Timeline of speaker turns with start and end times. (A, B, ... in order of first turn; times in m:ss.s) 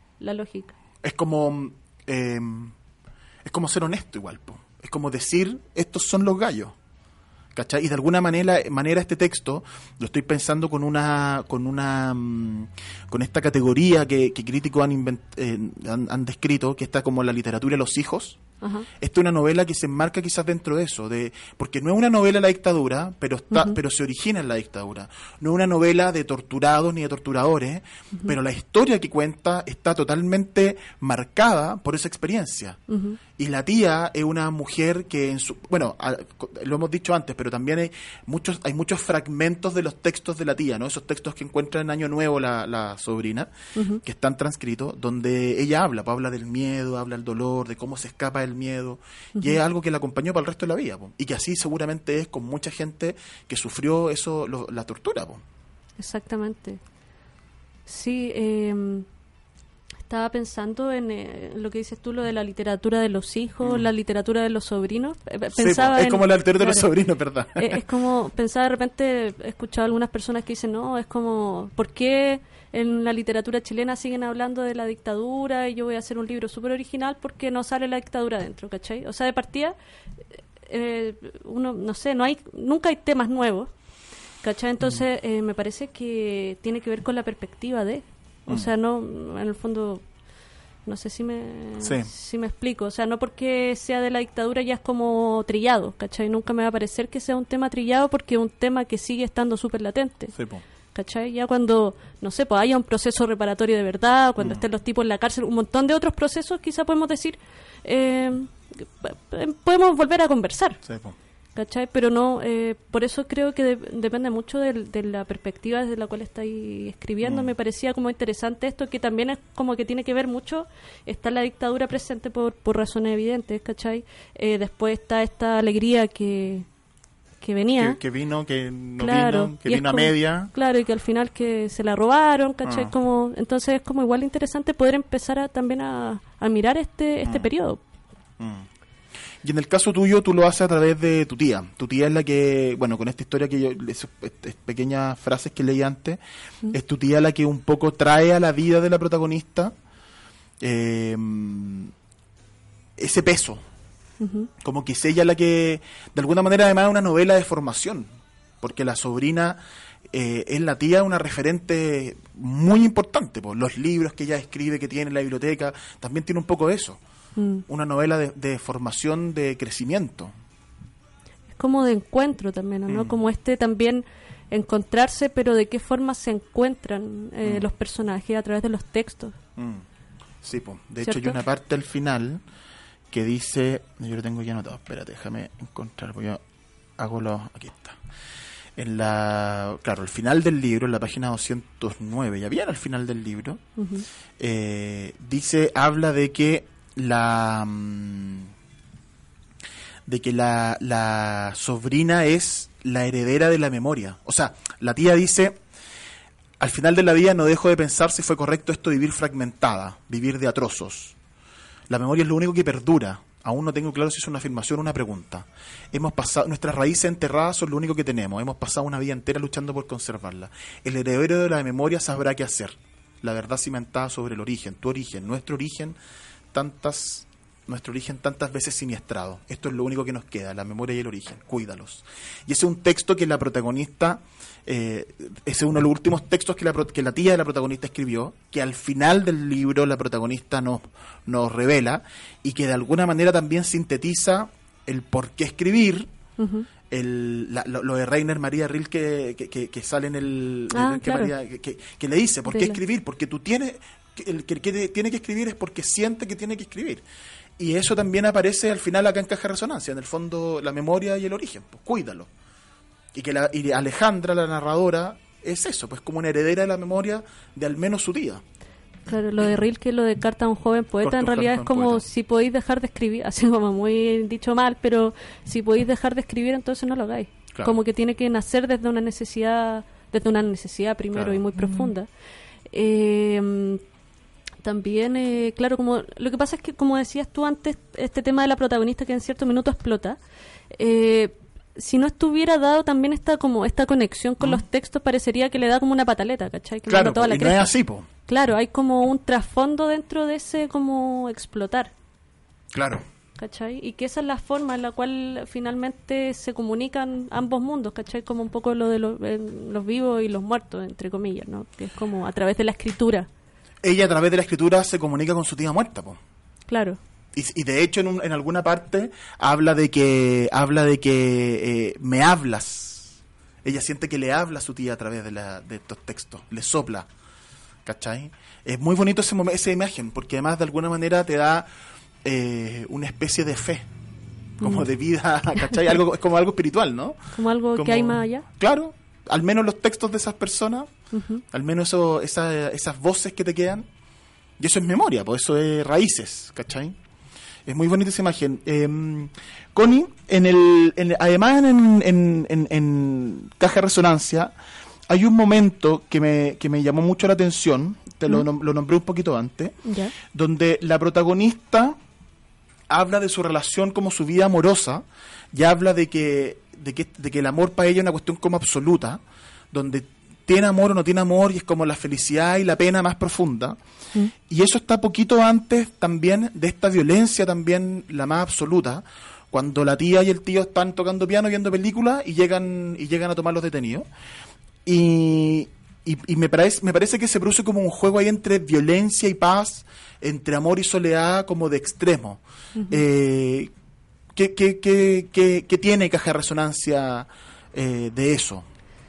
0:00.2-0:00.7 A
0:01.0-0:02.7 B
0:03.4-0:06.7 B
0:07.5-0:18.4 B
0:18.6-0:18.9 A
0:19.0-0:32.8 B
0:23.5-0:23.8 A
0:32.9-0:33.2 A
0:33.4-0:55.4 B
0:43.8-0:44.0 A
0:56.0-0:56.8 A
0:57.8-0:59.0 A
1:00.1-1:06.8 A
1:05.5-1:07.8 B
1:07.6-1:19.7 A
1:20.7-1:23.7 A
1:24.4-1:30.0 A
1:30.8-1:40.3 A
1:31.8-1:32.1 B
1:40.3-1:40.6 B
1:40.9-1:50.8 A
1:50.8-1:51.1 B
1:51.6-2:06.7 A
1:57.2-1:57.5 B
2:07.4-2:08.0 A
2:07.8-2:10.5 B
2:09.0-2:17.8 A
2:12.6-2:12.9 B
2:18.4-2:18.7 B
2:19.4-2:29.7 B
2:30.6-2:31.9 B
2:33.0-2:33.6 B
2:34.2-2:34.5 A
2:34.6-2:38.1 B
2:38.6-2:47.0 B
2:47.4-2:47.6 A
2:47.7-2:50.3 B
2:51.5-2:59.3 A
2:52.9-2:53.2 B
2:59.6-2:59.8 B
3:00.4-3:02.4 B
3:01.0-3:01.4 A
3:03.1-3:06.4 B
3:07.0-3:08.0 B
3:08.8-3:13.6 B
3:13.8-3:14.0 A
3:14.4-3:18.5 B
3:20.0-3:25.6 B
3:26.6-3:31.2 B
3:31.9-3:46.0 B
3:46.5-4:06.1 B
4:06.4-4:06.7 A
4:06.9-4:17.0 B
4:10.7-4:11.3 A
4:12.4-4:12.8 A
4:17.6-4:22.3 B
4:23.1-4:28.4 B
4:29.1-4:42.1 A
4:31.0-4:32.0 B
4:41.1-4:41.4 B
4:42.7-4:43.8 A
4:44.6-4:50.2 A
4:50.7-4:57.7 A
4:56.9-4:58.1 B
4:58.3-5:01.9 A
5:02.7-5:03.0 B
5:03.4-5:13.3 A
5:13.8-5:16.2 B
5:16.7-5:17.0 A
5:17.3-5:27.1 B
5:27.8-5:31.7 B
5:32.2-5:33.8 B
5:34.6-5:40.9 B
5:34.6-5:34.9 A
5:37.3-5:38.4 A
5:41.1-5:41.4 A
5:41.5-5:43.9 B
5:44.6-5:47.0 B
5:47.6-5:54.5 B
5:55.1-6:02.0 B
5:59.8-6:00.1 A
6:02.9-6:09.2 B
6:09.7-6:13.8 B
6:14.4-6:24.0 B
6:24.8-6:33.7 B
6:32.8-6:33.0 A
6:34.3-6:38.6 B